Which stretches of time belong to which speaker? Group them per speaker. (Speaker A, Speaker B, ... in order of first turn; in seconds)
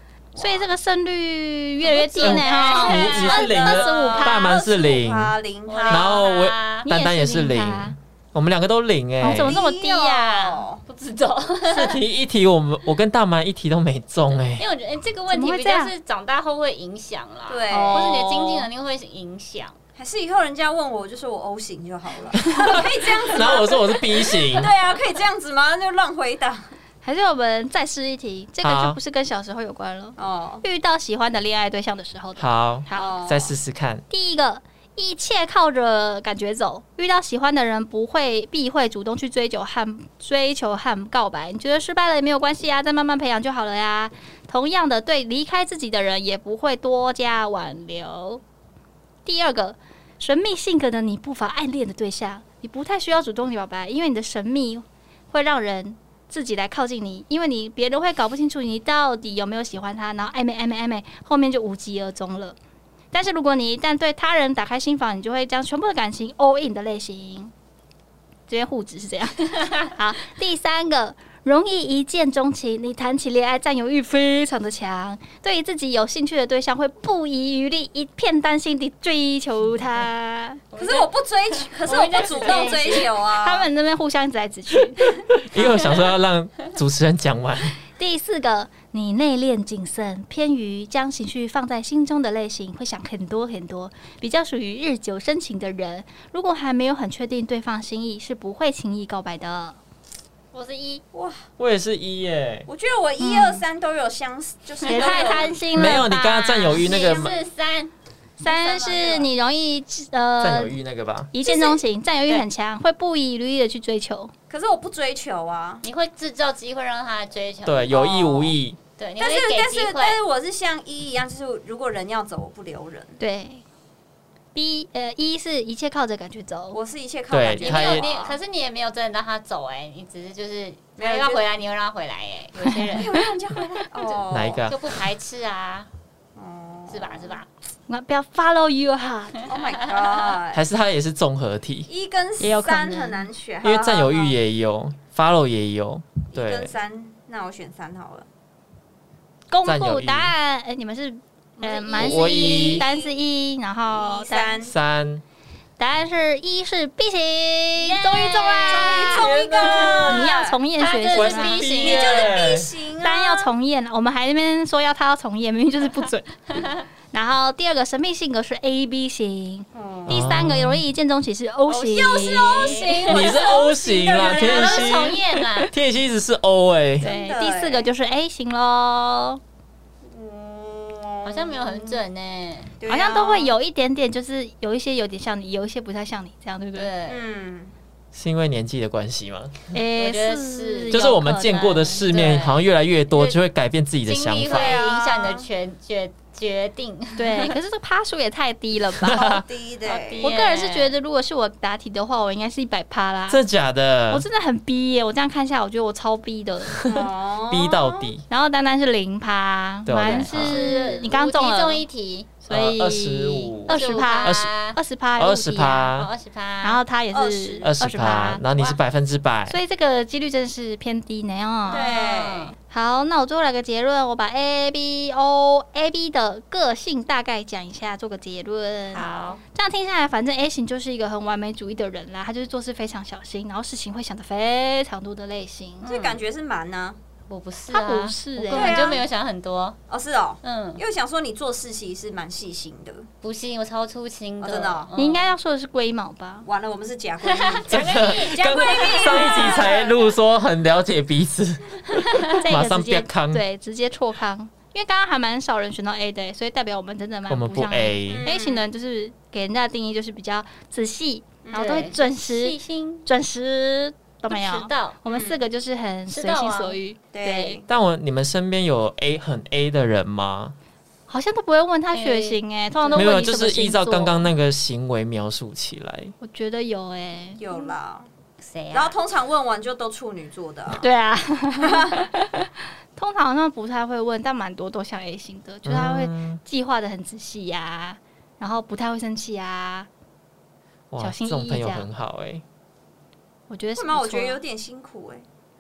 Speaker A: 0.4-0.6, 2.2-6.2, 9.3-10.8, 17.5-18.6, 19.9-26.7, 30.2-30.6, 32.9-33.5, 80.8-83.7, 101.1-101.4, 102.7-105.6, 107.0-107.3, 111.4-111.8, 114.5-115.8, 119.2-123.2, 126.7-128.4, 131.0-131.4, 132.9-134.7, 136.3-137.4, 139.4-140.6, 141.9-144.3, 146.3-148.3, 151.6-153.1, 153.9-154.7, 158.7-160.6, 161.7-163.5, 169.7-170.3, 171.8-175.2, 177.0-177.9, 180.0-182.0, 182.8-183.5, 187.1-187.7, 194.4-195.4, 199.2-200.3, 206.8-208.1, 217.1-217.7, 221.7-222.5, 235.8-237.0, 238.5-239.1, 239.9-243.1, 244.4-244.9, 246.4-250.1, 258.1-258.6, 261.4-261.9, 265.1-265.4, 267.1-267.7, 277.4-278.1, 278.7-280.9, 281.6-282.0, 293.8-295.2
Speaker B: 0.4-4.6, 6.8-7.9, 9.2-10.7, 15.3-15.9, 17.7-18.5, 27.0-33.2, 34.1-48.4, 49.2-62.6, 63.1-67.5, 68.5-80.6, 82.4-85.1, 88.0-99.8, 103.2-103.6, 104.9-107.0, 108.4-110.7, 111.3-114.3, 123.2-123.6, 124.5-126.8, 132.6-133.2, 137.9-139.5, 142.4-143.3, 149.5-154.6, 155.8-161.7, 163.0-166.3, 167.1-172.8, 177.0-179.4, 182.9-186.9, 189.7-192.1, 197.2-199.4, 200.2-203.4, 204.1-206.8, 208.3-211.8, 212.4-215.9, 216.6-218.4, 219.5-221.9, 222.7-235.9, 237.7-238.9, 244.9-246.5, 252.4-267.6, 271.1-274.3, 276.2-277.7, 280.7-289.9, 291.0-291.9, 293.5-294.4
Speaker C: 2.2-3.5, 5.7-6.8, 10.9-12.0, 14.5-19.8, 80.7-83.2, 85.6-86.1, 100.5-101.0, 104.9-105.3, 106.7-107.9, 108.4-109.3, 115.8-120.2, 127.6-133.2, 134.0-135.9, 136.9-137.5, 139.6-140.3, 151.6-152.3, 157.8-159.1, 160.8-162.4, 171.7-173.6, 174.2-175.7, 181.2-182.7, 186.7-187.2, 190.0-191.2, 191.9-193.4, 194.1-197.5, 199.8-200.9, 210.0-212.3, 213.7-214.8, 215.9-216.8, 221.7-222.5, 228.9-229.4, 235.8-236.2, 237.3-239.8, 240.4-240.8, 243.2-245.3, 247.2-249.7, 251.9-252.3, 261.5-263.1, 264.3-265.0, 266.1-266.8, 271.9-273.2, 278.4-279.0
Speaker D: 2.2-5.3, 5.9-9.6, 11.7-14.6, 22.4-24.7, 28.6-29.0, 32.4-34.0, 85.4-87.8, 101.6-102.7, 105.7-107.3, 110.4-111.3, 117.6-118.8, 127.3-128.1, 134.3-134.8, 140.5-141.9, 143.6-146.7, 149.6-150.3, 152.0-152.8, 154.6-155.2, 159.1-160.3, 161.1-162.7, 170.1-170.8, 173.1-177.1, 188.1-189.7, 190.9-194.8, 198.9-199.4, 203.3-204.2, 206.7-208.2, 209.8-210.7, 212.4-214.5, 215.2-216.1, 217.6-219.6, 247.7-253.4, 257.3-258.3, 267.7-270.5, 272.9-276.1, 285.6-286.4, 290.9-292.4